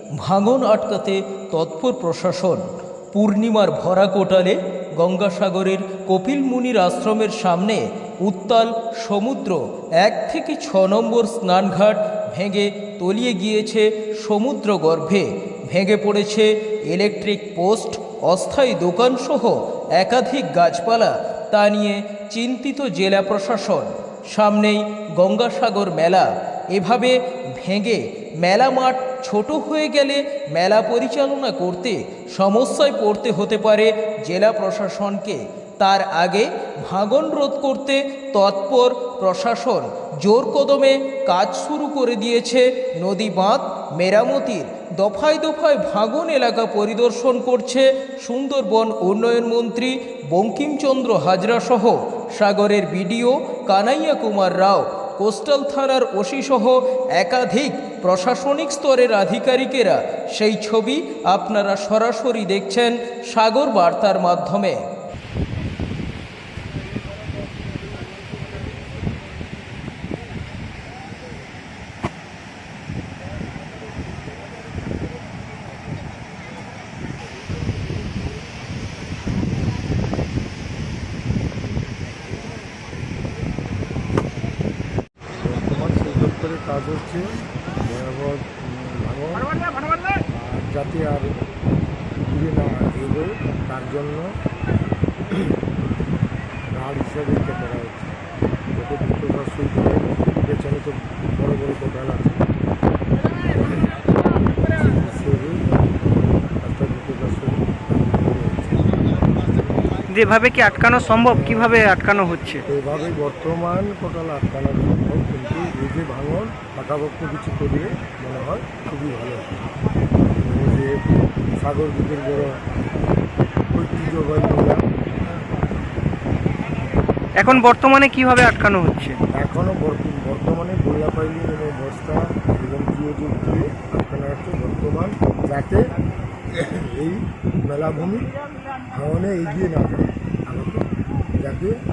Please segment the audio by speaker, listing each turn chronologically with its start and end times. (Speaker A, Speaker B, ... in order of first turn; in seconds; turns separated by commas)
Speaker A: 0.2-64.8, Speaker B: 85.3-89.6, Speaker B: 90.3-91.5, Speaker B: 92.3-94.3, Speaker B: 96.7-98.1, Speaker B: 98.7-102.4, Speaker B: 104.7-108.9, Speaker C: 110.1-112.7, Speaker B: 111.2-111.8, Speaker B: 112.7-119.6, Speaker B: 120.3-122.6, Speaker B: 123.7-124.8, Speaker C: 127.4-129.2, Speaker B: 129.3-135.9, Speaker B: 136.5-138.3, Speaker B: 138.9-140.8, Speaker B: 141.4-141.8